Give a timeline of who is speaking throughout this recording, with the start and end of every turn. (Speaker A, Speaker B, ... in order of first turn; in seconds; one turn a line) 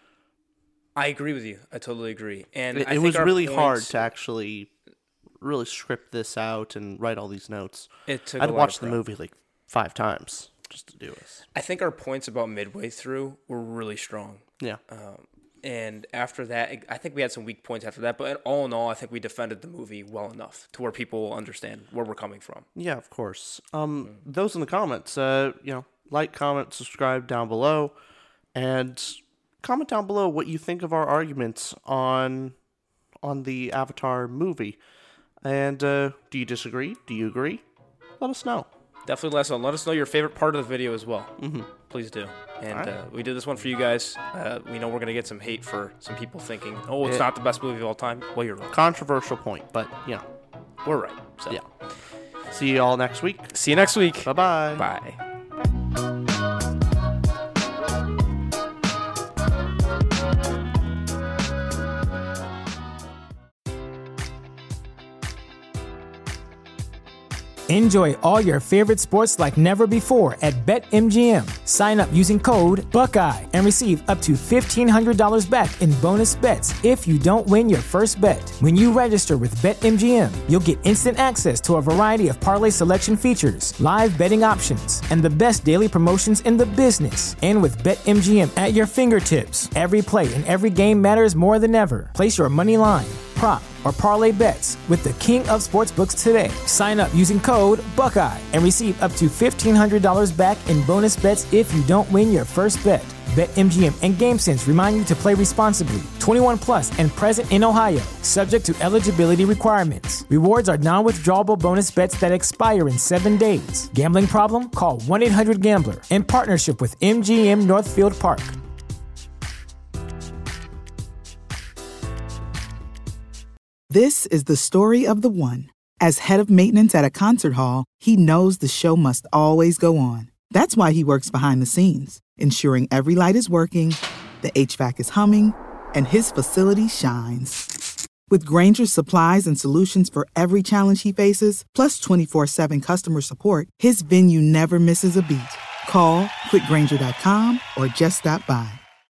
Speaker A: 0.9-4.0
Speaker B: 2.7-4.7
Speaker B: 5.4-11.4
Speaker A: 8.1-9.0
Speaker A: 11.5-22.7
Speaker B: 22.8-28.0
Speaker B: 28.5-32.6
Speaker B: 33.2-34.8
Speaker B: 35.4-37.6
Speaker B: 38.2-38.7
Speaker A: 39.1-48.7
Speaker B: 41.4-41.7
Speaker B: 48.7-50.2
Speaker A: 50.9-51.6
Speaker B: 52.5-53.6
Speaker A: 53.5-55.2
Speaker B: 54.2-54.9
Speaker C: 67.7-118.6
Speaker D: 123.9-137.7
Speaker D: 138.3-148.8